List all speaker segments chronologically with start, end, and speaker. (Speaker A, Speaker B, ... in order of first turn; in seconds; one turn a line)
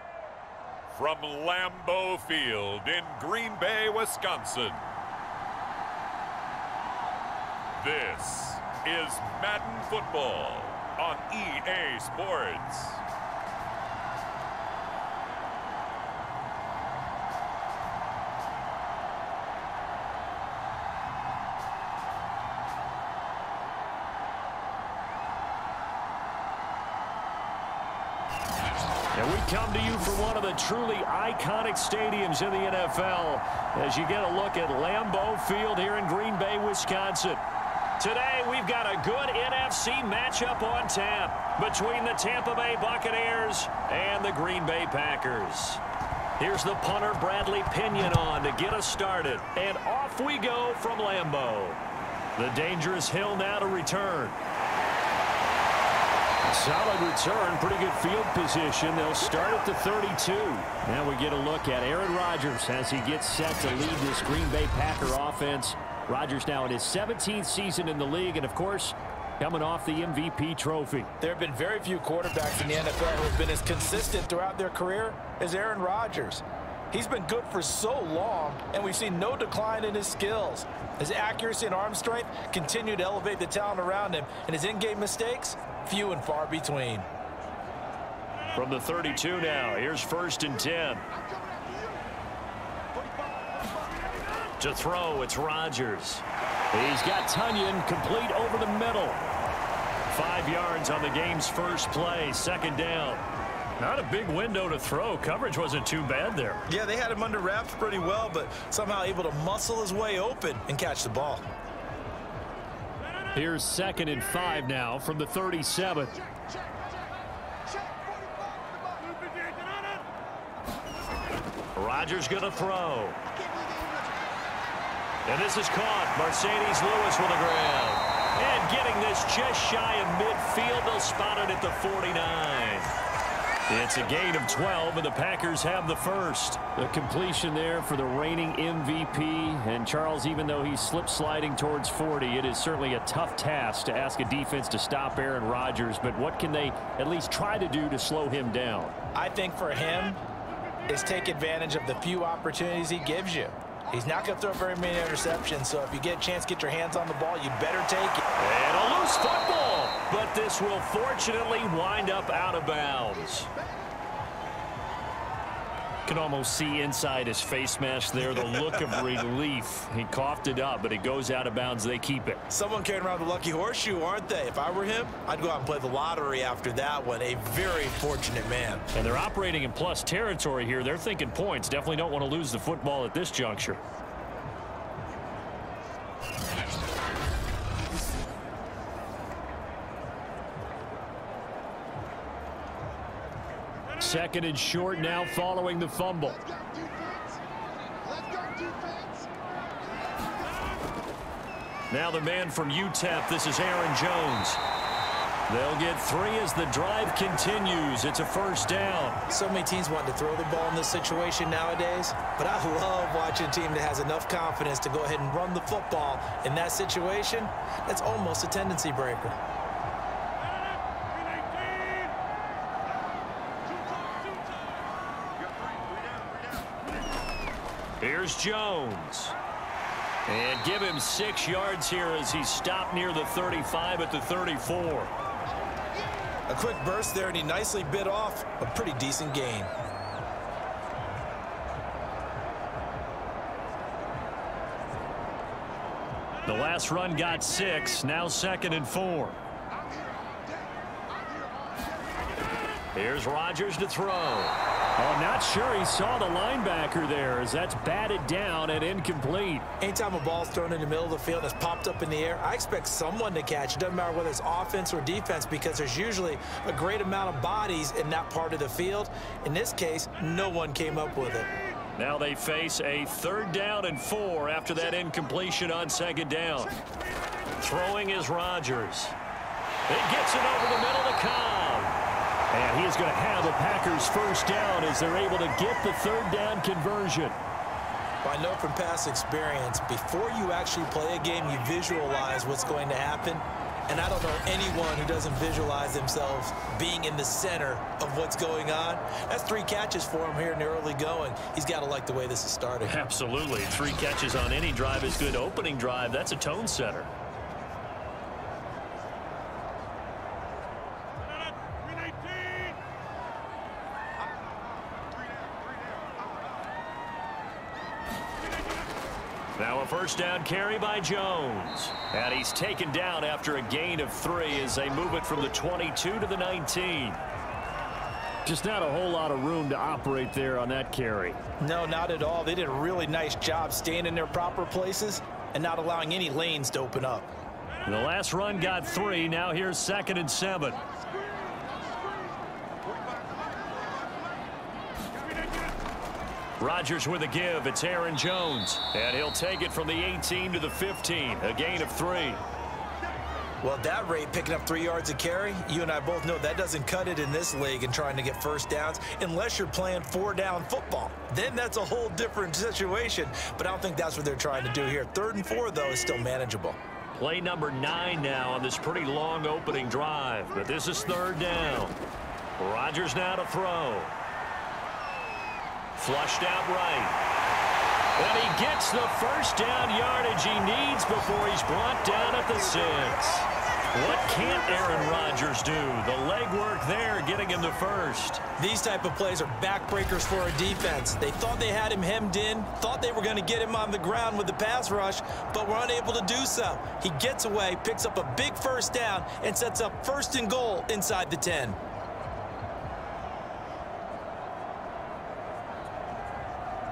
Speaker A: 1.0-4.8
Speaker A: 7.8-13.0
Speaker B: 29.1-37.4
Speaker B: 38.0-45.8
Speaker B: 46.4-51.8
Speaker B: 52.4-54.4
Speaker B: 56.4-71.1
Speaker C: 71.2-87.1
Speaker B: 88.5-91.0
Speaker B: 94.6-99.2
Speaker B: 100.1-103.2
Speaker B: 103.8-106.6
Speaker C: 106.7-111.4
Speaker B: 113.3-116.2
Speaker B: 121.7-123.2
Speaker B: 125.2-132.9
Speaker B: 133.7-148.9
Speaker C: 149.1-150.2
Speaker C: 150.9-158.2
Speaker B: 158.4-163.5
Speaker B: 166.1-172.4
Speaker C: 168.4-169.0
Speaker C: 172.5-178.8
Speaker B: 178.9-183.8
Speaker B: 194.0-196.5
Speaker C: 198.6-199.1
Speaker B: 201.9-204.6
Speaker B: 205.5-209.2
Speaker C: 209.3-219.4
Speaker B: 228.0-229.3
Speaker B: 230.3-235.1
Speaker C: 236.5-239.7
Speaker B: 246.4-249.4
Speaker B: 252.9-259.7
Speaker C: 259.8-271.5
Speaker B: 271.9-276.7
Speaker B: 277.6-279.1
Speaker B: 279.9-282.0
Speaker B: 282.5-287.4
Speaker C: 288.2-303.0
Speaker B: 302.9-307.1
Speaker B: 319.6-327.2
Speaker B: 328.4-331.4
Speaker C: 331.6-337.3
Speaker B: 337.8-340.9
Speaker B: 346.6-352.4
Speaker C: 353.6-366.8
Speaker B: 367.1-371.9
Speaker B: 372.6-374.1
Speaker B: 375.9-377.2
Speaker B: 378.2-388.4
Speaker C: 388.6-401.8